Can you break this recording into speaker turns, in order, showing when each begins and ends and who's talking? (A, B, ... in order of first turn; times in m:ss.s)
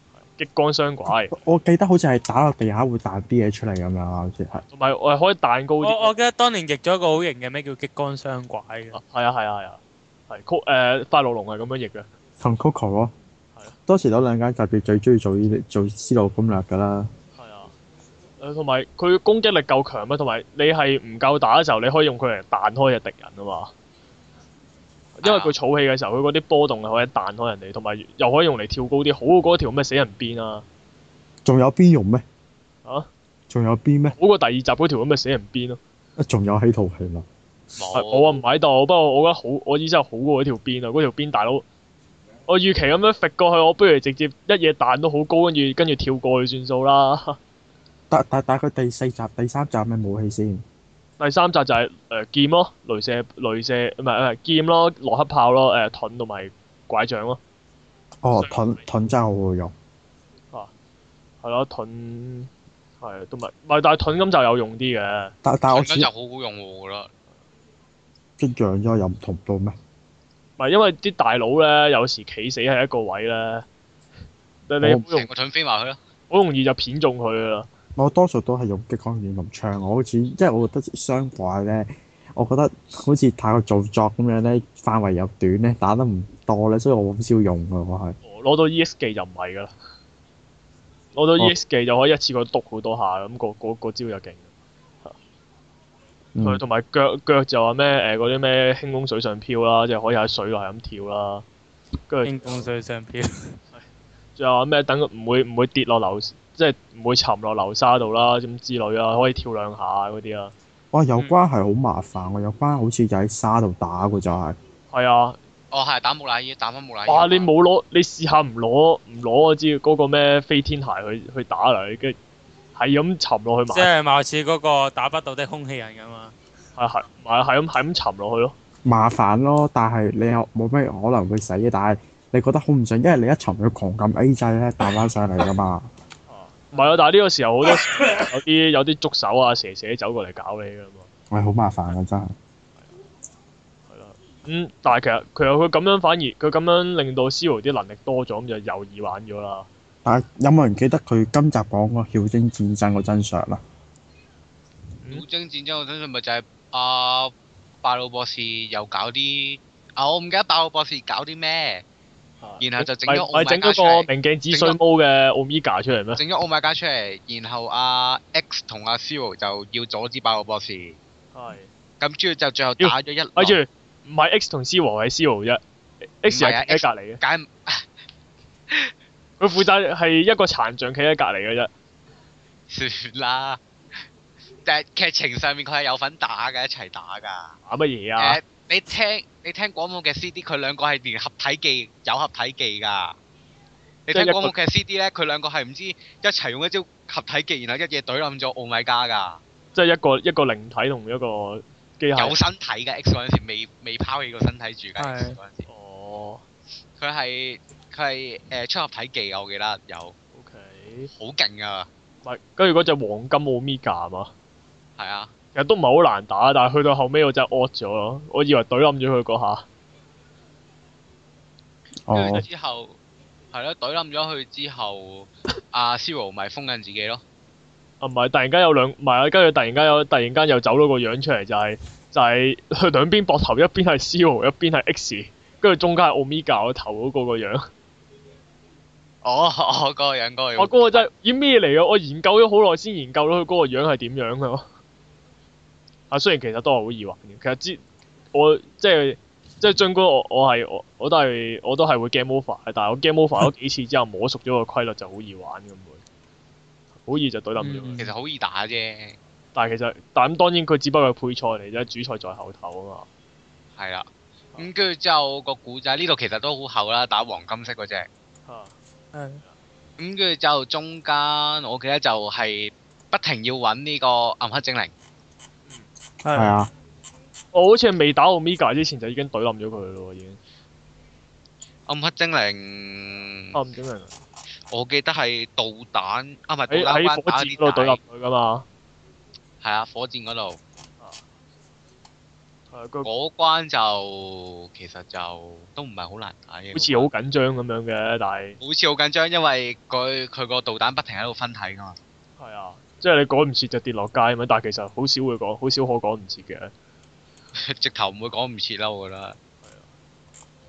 0:00.2-0:01.3 A
0:01.3-0:04.6 B
0:04.7-0:06.1 A
0:05.8-0:09.0 C
0:08.9-0:12.1 A
0:12.4-0:13.1 B
0:13.9-0:17.1 B
0:17.4-0:17.7 A
0:18.4-0:23.7 A
0:25.2-0:30.6 A
0:25.2-0:25.5 D
0:31.4-0:32.2 B
0:33.5-0:34.2 B
0:34.2-0:35.8 A
0:36.2-0:37.2 B
0:37.8-0:38.4 D
0:37.9-0:41.6 A
0:42.5-0:47.4 A
0:48.1-0:50.6 B
0:51.2-0:57.4 A
0:58.2-0:59.7 B
0:58.4-0:58.8 A
1:01.4-1:02.5 A
1:03.0-1:05.3 A
1:05.4-1:06.1 B
1:05.7-1:07.1 D
1:08.4-1:09.8 B
1:10.6-1:13.6 A
1:14.7-1:15.3 A
1:15.1-1:16.0 D
1:16.3-1:17.7 A
1:18.0-1:28.2 B
1:28.2-1:29.7 A
1:31.1-1:34.5 A
1:36.3-1:36.6 B
1:36.4-1:41.4 A
1:42.1-1:42.7 A
1:42.2-1:43.6 C
1:44.4-1:50.5 A
1:50.9-1:54.6 B
1:54.9-1:55.4 A
1:55.7-1:57.5 D
1:57.1-2:02.2 A
2:02.7-2:03.9 A
2:03.7-2:06.3 C
2:06.8-2:08.5 A
2:08.8-2:15.9 B
2:16.3-2:21.1 A
2:21.3-2:22.3 B
2:23.9-2:29.7 A
2:30.0-2:33.6 B
2:35.1-2:37.3 D
2:37.8-2:41.8 D
2:42.4-2:46.2 A
2:42.6-2:44.8 D
2:46.2-2:51.0 D
2:51.3-2:51.7 A
2:52.0-2:53.6 D
2:52.8-2:55.6 A
2:56.2-2:57.2 A
2:56.3-2:57.8 D
2:59.4-3:01.7 A
3:02.7-3:03.6 D
3:04.6-3:07.6 D
3:07.7-3:08.4 A
3:08.2-3:13.2 D
3:14.1-3:19.4 D
3:14.1-3:14.5 A
3:19.7-3:22.4 A
3:22.1-3:25.6 D
3:25.0-3:25.4 C
3:25.7-3:26.4 A
3:27.0-3:30.1 D
3:30.3-3:31.1 A
3:31.1-3:31.9 D
3:32.2-3:34.3 A
3:35.0-3:35.3 D
3:35.5-3:39.6 A
3:42.1-3:42.4 B
3:42.1-3:43.0 D
3:43.5-3:47.2 D
3:48.0-3:57.7 A
3:59.2-4:01.0 D
4:00.6-4:04.7 A
4:06.1-4:07.8 A
4:08.3-4:16.0 A
4:17.0-4:18.0 A
4:17.6-4:18.1 C
4:18.0-4:19.2 D
4:19.5-4:23.1 A
4:23.8-4:28.1 D
4:28.5-4:28.7 A
4:29.1-4:29.4 C
4:30.0-4:34.9 D
4:36.2-4:36.5 C
4:36.3-4:36.7 B
4:37.5-4:40.4 A
4:41.9-4:43.5 D
4:43.5-4:44.1 A
4:44.7-4:48.0 D
4:46.7-4:48.6 A
4:49.6-4:50.6 D
4:52.7-4:53.1 A
4:53.0-4:57.1 D
4:56.7-4:58.6 A
4:58.6-5:02.0 D
5:02.4-5:06.7 A
5:07.5-5:09.4 D
5:09.6-5:09.9 A